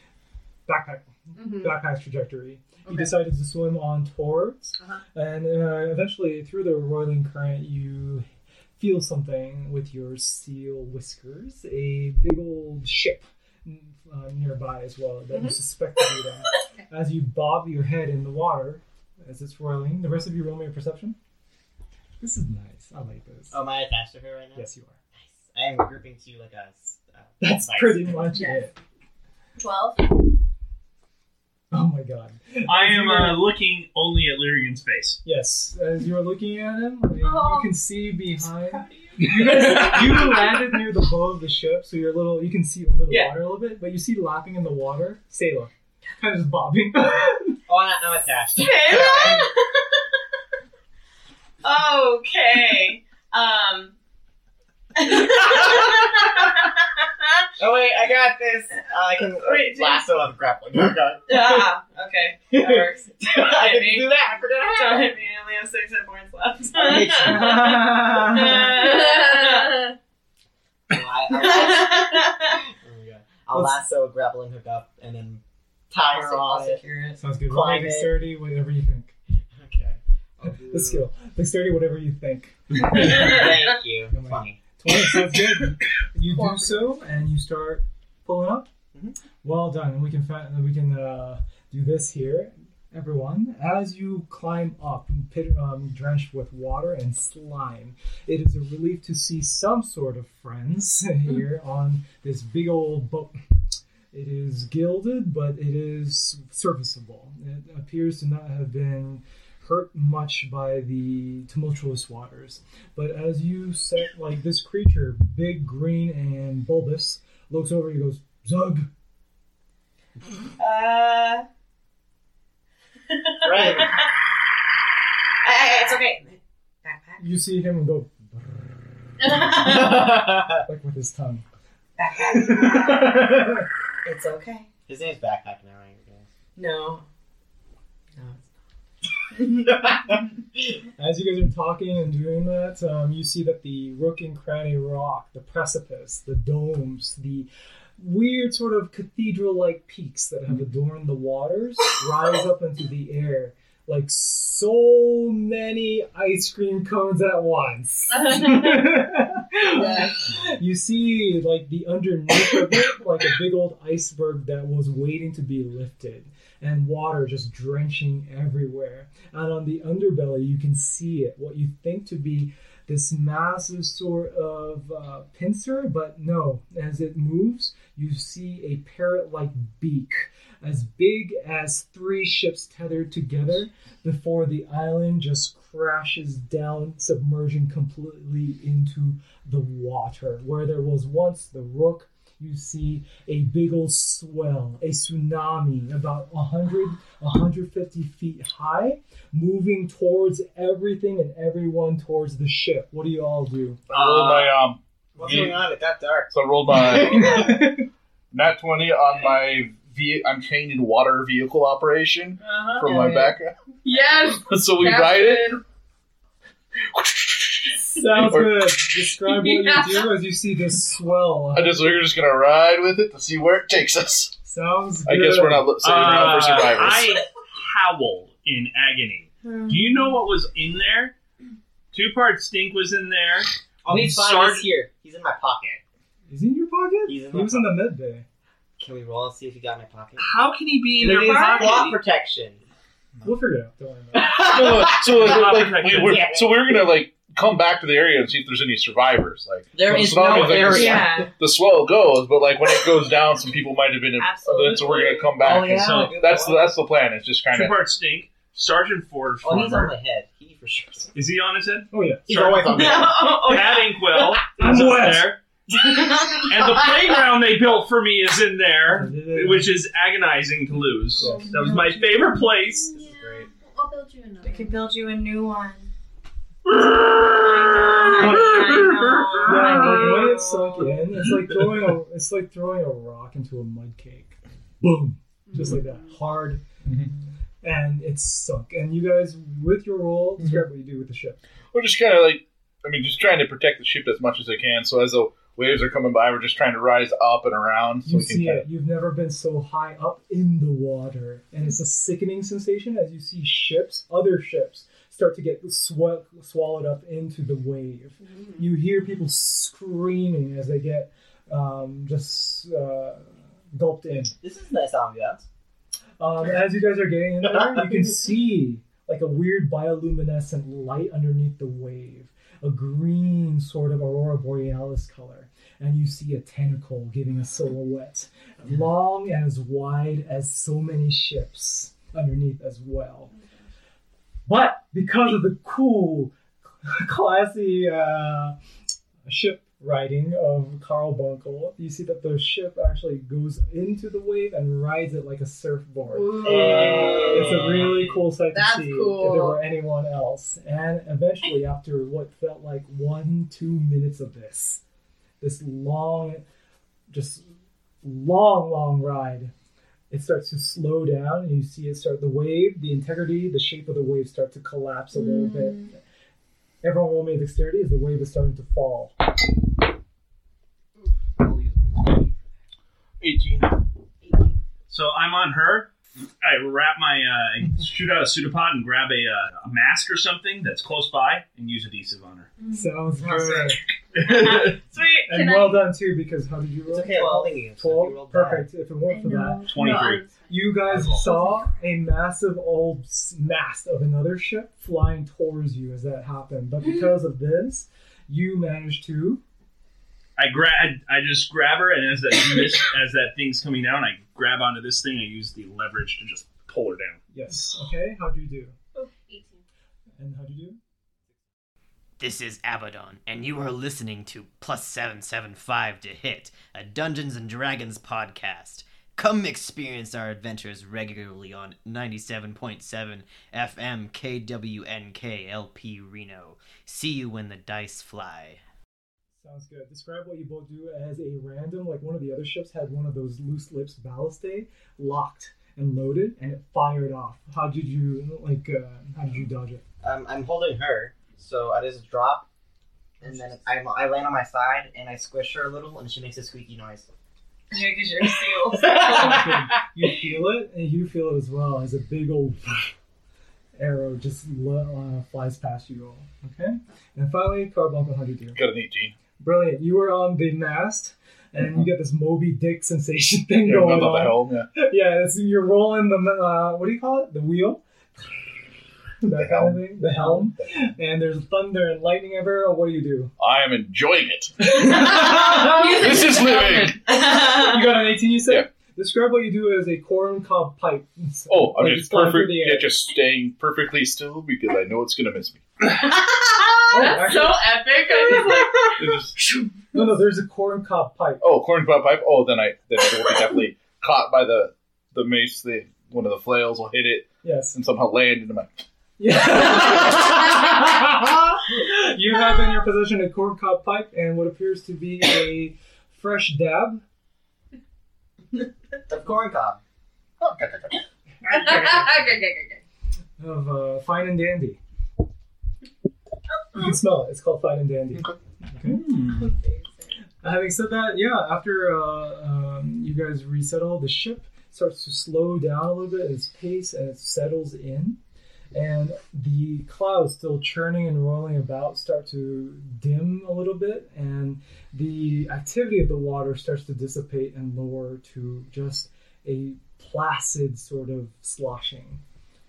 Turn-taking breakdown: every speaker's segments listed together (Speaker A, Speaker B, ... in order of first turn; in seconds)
Speaker A: 0.7-8.2, 8.8-21.2, 22.2-23.5, 24.5-25.0, 27.4-28.7, 31.7-33.5, 35.2-47.6, 67.4-68.5, 73.5-73.8, 77.2-79.1, 80.4-83.4, 84.1-88.7, 89.4-103.3, 104.1-118.9, 127.2-128.8, 130.7-131.4, 132.2-133.7, 140.9-203.8, 207.0-207.8, 217.9-222.1, 224.4-225.7, 236.3-238.2, 243.2-244.3, 261.9-262.2, 264.6-265.4, 268.9-269.7, 271.2-271.7, 279.4-286.6, 287.6-291.4, 298.0-314.3, 316.2-333.3, 334.5-338.6, 339.2-354.8, 355.4-356.4, 357.1-357.5, 358.0-359.5, 360.1-366.0, 366.8-369.1, 382.7-383.8, 385.3-389.8, 390.5-399.4, 407.3-408.7, 410.2-410.8, 429.4-439.8, 449.0-452.9, 453.8-458.6, 459.4-467.8, 469.2-473.3, 474.6-476.1, 477.1-482.9, 486.9-487.7, 489.9-491.4, 497.4-497.8, 499.2-507.0, 511.5-512.2, 513.4-514.8, 516.7-519.0, 520.4-528.2, 528.7-542.2
Speaker B: 1.3-1.8, 2.8-3.2, 4.8-5.0, 28.2-28.6, 29.6-30.1, 37.2-37.7, 68.8-69.9, 86.2-87.0, 158.1-159.0, 159.6-160.2, 212.4-213.1, 213.8-215.6, 219.2-220.1, 271.1-274.9, 277.4-278.4, 285.4-286.1, 308.2-308.7, 333.3-333.6, 346.0-347.7, 348.4-349.6, 365.1-365.9, 374.2-374.6, 382.6-382.9, 385.3-385.9, 389.1-391.7, 408.9-409.6, 475.0-477.0, 486.8-489.2, 511.5-512.8
Speaker C: 23.5-28.3, 47.6-49.5, 57.6-61.7, 62.5-65.1, 66.7-68.7, 70.9-72.2, 72.8-76.8, 77.5-78.2, 79.5-81.1, 82.8-84.6, 123.4-123.9, 129.4-130.6, 134.9-136.3, 205.2-206.3, 233.8-235.8, 237.1-237.8, 238.8-240.3, 240.9-242.6, 244.2-245.3, 246.1-246.5, 249.8-251.2, 255.4-256.7, 259.4-261.1, 262.3-263.2, 272.9-273.5, 314.4-315.5, 317.5-317.8, 346.4-348.1, 371.4-372.3, 383.2-383.8, 386.9-388.6, 440.0-442.5, 443.2-447.1, 448.7-449.6, 509.1-509.8
Speaker D: 32.7-35.2, 39.3-40.0, 203.9-204.5, 225.8-231.1, 231.9-234.7, 240.2-242.0, 244.6-246.4, 250.2-250.9, 255.6-256.2, 257.5-259.9, 261.1-265.4, 266.4-272.9, 374.9-375.9, 376.4-382.5, 384.1-384.7, 389.6-390.2, 400.4-407.2, 518.8-519.5
Speaker E: 38.7-40.5, 43.1-43.4, 48.6-50.0, 51.6-53.9, 54.9-56.6, 59.4-60.1, 61.3-69.9, 71.3-72.6, 76.0-77.2, 120.6-121.5, 123.1-124.0, 125.4-127.2, 129.3-130.0, 132.0-133.3, 134.0-134.7, 136.6-137.1, 138.2-138.5, 212.8-213.3, 229.4-230.1, 250.1-251.3, 254.2-255.5, 262.6-264.0, 265.7-266.9, 274.4-275.9, 277.5-280.4, 383.4-385.4, 447.7-449.5, 477.1-478.1, 519.2-520.1
Speaker F: 203.9-205.6, 206.3-207.7, 208.3-213.5, 214.3-215.6, 216.9-218.8, 221.5-224.3, 225.0-227.2, 244.2-257.8, 291.7-298.6, 373.2-373.8, 458.5-459.1, 463.6-464.7, 469.3-470.5, 473.4-474.7, 475.8-477.0, 481.5-485.6, 489.0-489.3, 491.4-498.8, 510.4-511.0
Speaker G: 412.2-428.6